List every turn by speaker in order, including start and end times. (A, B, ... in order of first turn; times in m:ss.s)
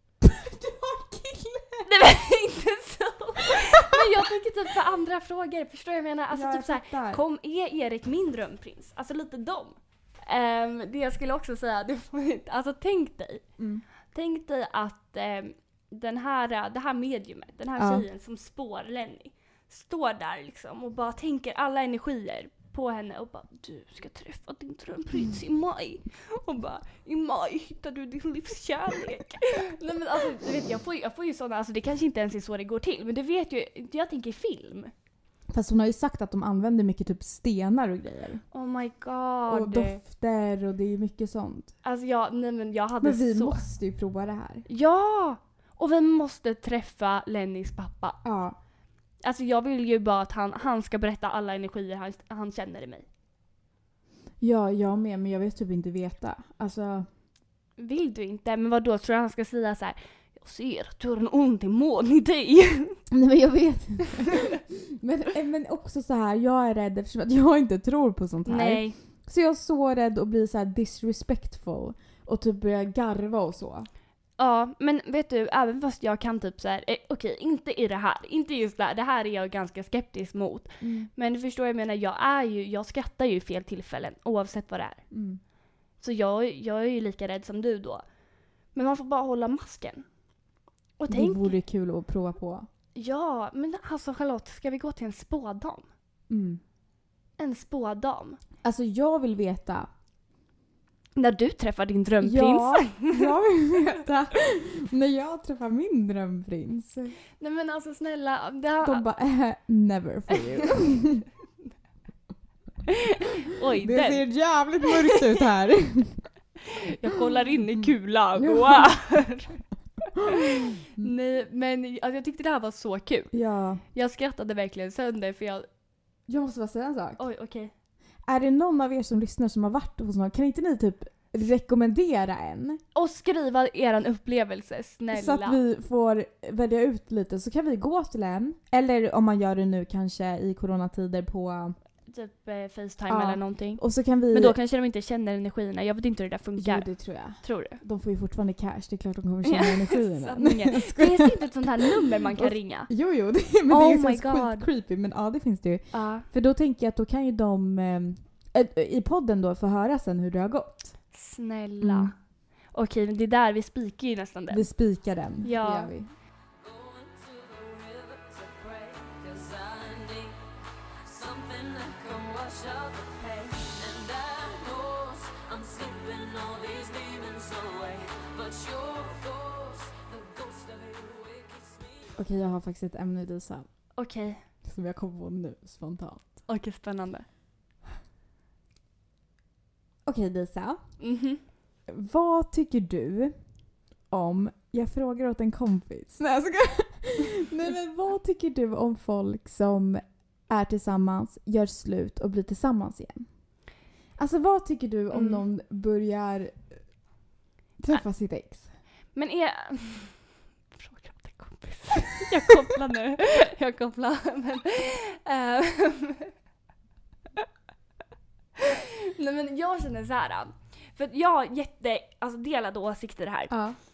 0:00.2-0:01.9 A
0:01.8-0:13.4 B
0:06.3-0:07.2 A
0:13.6-0:13.8 A
0:14.1-0:34.9 B
0:17.8-0:18.0 A
0:35.5-0:38.4 A
0:38.5-0:40.0 B
0:39.5-0:41.7 A
0:41.8-0:43.6 B
0:43.0-0:44.6 A
0:44.7-0:48.2 B
0:48.2-0:48.6 A
0:49.2-0:53.0 B
0:54.4-0:57.1 A
0:57.8-1:03.0 B
1:03.1-1:13.9 A
1:08.4-1:09.0 B
1:14.4-1:25.0 B
1:20.8-1:21.1 A
1:25.1-1:25.4 A
1:26.0-1:28.0 B
1:28.7-1:30.0 B
1:31.0-1:31.5 B
1:31.1-1:32.7 A
1:32.9-1:35.8 B
1:36.3-1:36.6 A
1:37.4-1:38.4 B
1:38.6-1:39.9 A
1:41.2-1:43.3 B
1:42.2-1:47.2 A
1:47.4-1:49.0 B
1:48.8-1:51.2 A
1:52.9-1:54.2 B
1:53.8-1:56.2 A
1:56.6-1:59.6 B
1:58.4-1:58.9 A
2:00.1-2:03.3 B
2:00.4-2:01.1 A
2:03.3-2:03.8 A
2:03.9-2:05.7 B
2:06.3-2:07.2 A
2:07.2-2:07.7 B
2:08.2-2:12.8 A
2:12.9-2:15.6 B
2:15.1-2:21.8 A
2:22.1-2:26.9 B
2:23.1-2:24.6 A
2:26.6-2:31.3 A
2:27.4-2:27.8 B
2:29.4-2:32.9 B
2:32.4-2:40.9 A
2:33.7-2:34.7 B
2:35.9-2:36.3 B
2:41.1-2:42.1 B
2:41.8-2:42.1 A
2:42.7-2:44.7 B
2:44.5-2:46.1 A
2:45.4-2:45.9 B
2:46.6-2:50.4 C
2:51.0-3:02.1 C
3:02.2-3:03.7 A
3:04.0-3:04.4 B
3:04.6-3:06.4 A
3:06.4-3:07.2 B
3:10.0-3:10.8 A
3:11.0-3:11.4 B
3:11.9-3:13.3 A
3:14.1-3:23.3 A
3:24.2-3:26.7 A
3:25.1-3:25.4 B
3:27.8-3:28.7 A
3:29.1-3:30.2 B
3:30.7-3:36.3 B
3:38.6-3:43.5 B
3:43.5-3:43.8 A